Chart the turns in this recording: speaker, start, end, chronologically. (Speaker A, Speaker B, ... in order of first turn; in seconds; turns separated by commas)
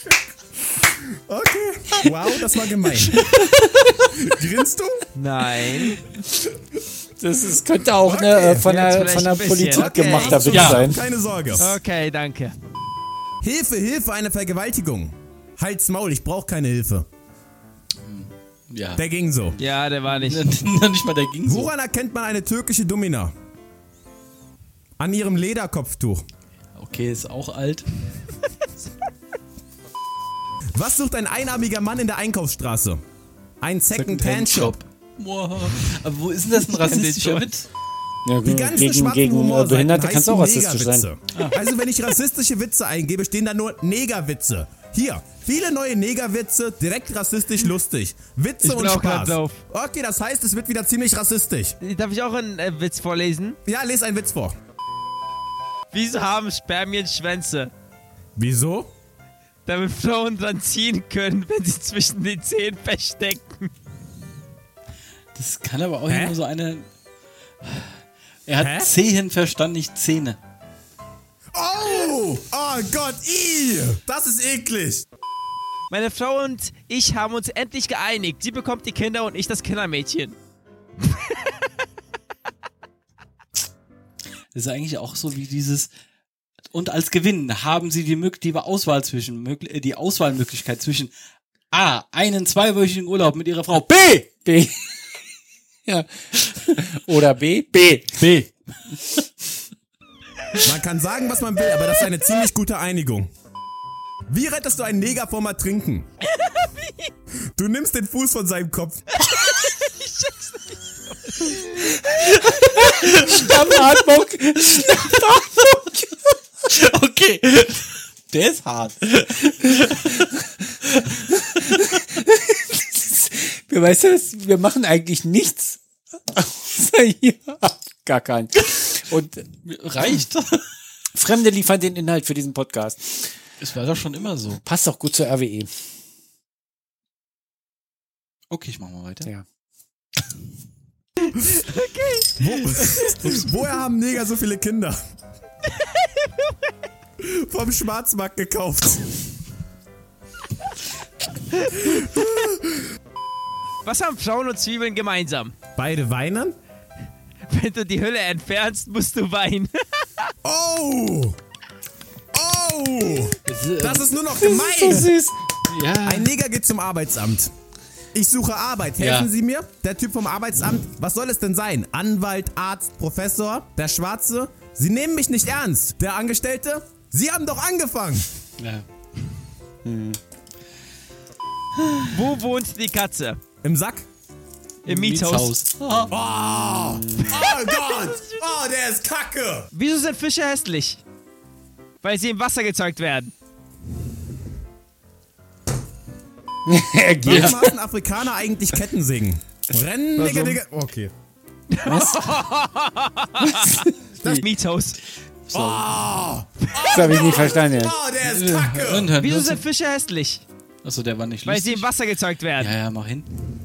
Speaker A: 0.9-3.3, Speaker B: 3.2-3.9, Speaker A: 4.0-5.1, Speaker C: 5.2-6.0, Speaker D: 7.2-11.1, Speaker A: 8.0-8.7, Speaker C: 8.6-10.5, Speaker A: 9.7-11.7, Speaker B: 10.5-10.9, Speaker C: 11.6-12.6, Speaker A: 13.4-17.1, Speaker B: 18.0-19.0, Speaker A: 19.0-19.6, Speaker C: 19.6-20.5, Speaker B: 20.2-21.7, Speaker A: 21.5-23.3, Speaker A: 25.0-26.2, Speaker B: 26.8-27.9, Speaker A: 30.8-33.0, Speaker A: 33.6-34.8, Speaker B: 33.9-37.7, Speaker C: 36.9-37.4, Speaker D: 38.2-41.1, Speaker A: 38.5-51.8, Speaker C: 48.6-49.6, Speaker C: 51.8-53.6, Speaker A: 53.7-54.6, Speaker C: 55.9-57.7, Speaker A: 58.4-58.9, Speaker C: 59.7-63.7, Speaker B: 65.3-66.9, Speaker A: 66.1-66.4, Speaker B: 67.6-67.9, Speaker B: 68.5-70.4, Speaker A: 68.6-68.9, Speaker A: 71.5-75.0, Speaker C: 75.9-80.4, Speaker B: 84.5-85.9, Speaker B: 86.7-91.1, Speaker B: 91.7-94.3, Speaker D: 94.5-94.9, Speaker D: 95.8-98.3, Speaker B: 98.2-98.5, Speaker A: 100.6-103.3, Speaker A: 104.3-106.1, Speaker C: 106.3-107.1, Speaker A: 107.5-109.0, Speaker C: 109.2-112.5, Speaker B: 112.7-113.5, Speaker D: 112.8-116.3, Speaker B: 114.8-115.2, Speaker B: 116.7-120.3, Speaker D: 119.6-120.3, Speaker D: 121.0-129.5, Speaker B: 121.1-121.8, Speaker B: 129.6-130.7, Speaker D: 131.1-133.3, Speaker B: 133.6-134.6, Speaker D: 134.6-135.7, Speaker B: 138.5-139.3, Speaker C: 141.2-143.0, Speaker A: 142.4-145.0, Speaker C: 145.8-146.5, Speaker A: 147.2-149.1, Speaker A: 151.8-152.8, Speaker C: 153.8-155.5, Speaker A: 155.8-156.6, Speaker C: 157.5-160.3, Speaker A: 160.4-161.4, Speaker A: 162.3-165.1, Speaker B: 163.5-164.2, Speaker D: 164.3-165.3, Speaker B: 165.7-166.3, Speaker A: 166.1-167.5, Speaker A: 168.1-178.3, Speaker B: 169.0-169.3, Speaker B: 178.6-178.9, Speaker D: 179.8-180.2, Speaker C: 182.1-183.4, Speaker A: 183.6-184.1, Speaker B: 184.8-186.1, Speaker C: 184.9-185.5, Speaker A: 186.1-189.7, Speaker D: 186.8-187.5, Speaker C: 187.3-188.4, Speaker C: 189.7-191.0, Speaker C: 192.0-193.3, Speaker D: 196.7-197.7, Speaker A: 197.2-201.1, Speaker B: 197.3-197.6, Speaker C: 200.2-200.6, Speaker C: 201.7-205.0, Speaker D: 201.8-202.3, Speaker D: 203.4-203.9, Speaker B: 205.5-206.0, Speaker A: 205.5-209.1, Speaker D: 206.9-208.0, Speaker B: 208.2-209.6, Speaker C: 209.2-210.4, Speaker B: 210.8-211.9, Speaker C: 211.5-212.7, Speaker B: 212.6-213.3